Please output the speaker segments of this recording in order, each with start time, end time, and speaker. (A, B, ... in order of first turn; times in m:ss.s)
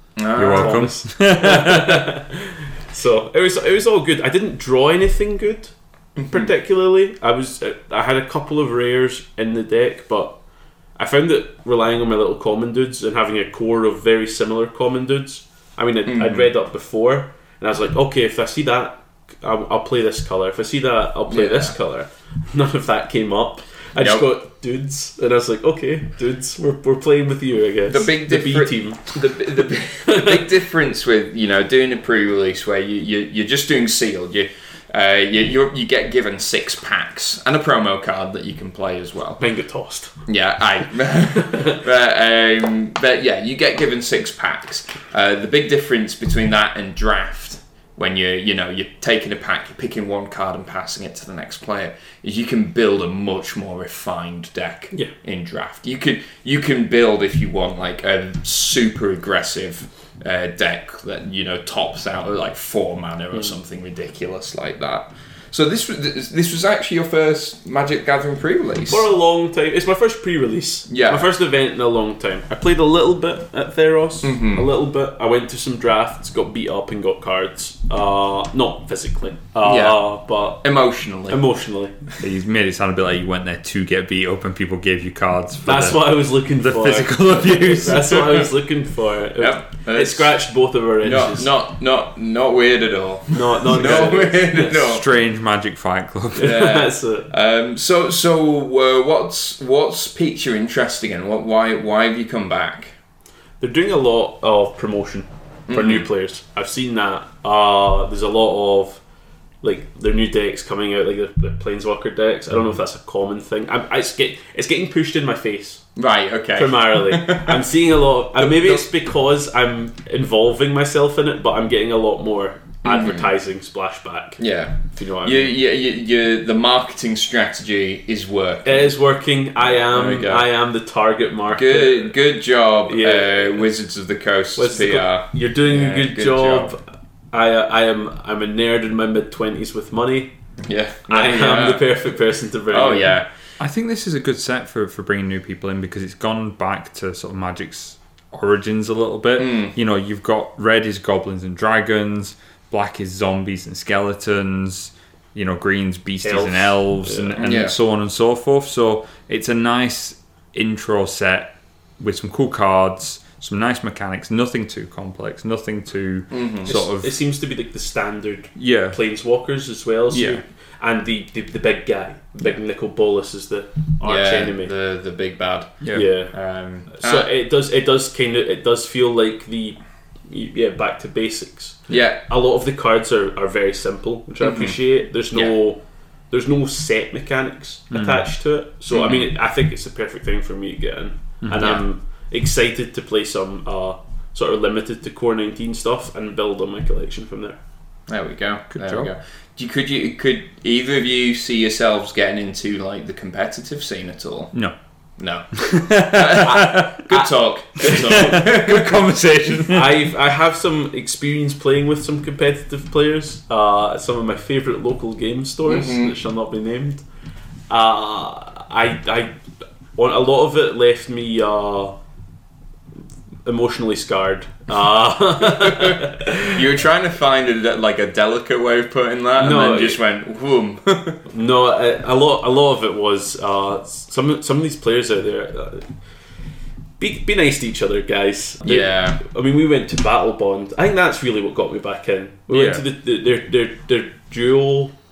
0:00.2-0:00.9 A
0:00.4-0:02.1 B
0:00.6-0:05.7 C
0:06.2-0:06.5 A
0:06.3-0:10.4 C
0:11.0-0:29.2 C
0:16.1-0:16.5 A
0:21.3-0:21.8 A
0:24.0-0:24.3 A
0:27.9-0:39.4 A
0:30.0-0:30.4 C
0:39.4-0:40.1 C
0:40.3-1:09.0 A
0:41.4-0:41.8 C
1:08.9-1:20.6 C
1:10.9-1:11.3 A
1:14.2-1:14.7 A
1:19.6-1:21.4 A
1:21.3-1:22.0 C
1:22.2-1:28.3 B
1:25.7-1:31.5 C
1:29.4-1:30.4 A
1:31.0-1:35.0 A
1:33.3-1:34.8 C
1:34.7-1:36.6 B
1:36.4-1:37.3 C
1:36.4-1:42.9 A
1:43.6-1:49.0 C
1:45.7-1:46.1 A
1:49.6-1:55.8 C
1:56.0-1:57.6 A
1:56.6-2:04.4 C
1:58.4-1:58.9 A
2:02.8-2:03.3 A
2:04.4-2:08.9 A
2:04.9-2:05.5 C
2:08.6-2:12.2 C
2:09.8-2:10.5 A
2:11.5-2:16.7 A
2:12.9-2:13.7 C
2:14.6-2:16.8 C
2:17.3-2:20.3 C
2:20.6-2:21.9 A
2:21.1-2:23.2 C
2:22.7-2:23.3 A
2:23.6-2:47.2 B
2:29.4-2:29.8 A
2:36.2-2:37.4 C
2:37.4-2:37.8 A
2:46.3-2:46.8 A
2:46.7-2:54.7 C
2:48.6-2:49.0 B
2:50.1-2:50.4 B
2:54.0-2:57.3 A
2:55.8-2:56.1 B
2:55.9-2:56.3 C
2:56.9-3:05.8 C
3:01.9-3:02.2 A
3:04.4-3:04.8 A
3:06.3-3:17.6 C
3:07.9-3:08.2 B
3:08.9-3:09.3 A
3:11.4-3:11.7 B
3:11.6-3:11.8 A
3:18.1-3:24.5 A
3:18.7-3:19.1 B
3:25.2-3:29.0 A
3:25.6-3:30.0 B
3:29.7-3:37.0 C
3:35.7-3:36.2 A
3:37.7-3:39.4 C
3:40.0-3:42.0 C
3:43.4-3:46.6 C
3:45.4-3:51.2 A
3:49.4-3:50.0 C
3:51.3-3:55.9 C
3:57.0-4:04.9 C
3:58.6-3:59.2 A
4:02.5-4:02.8 B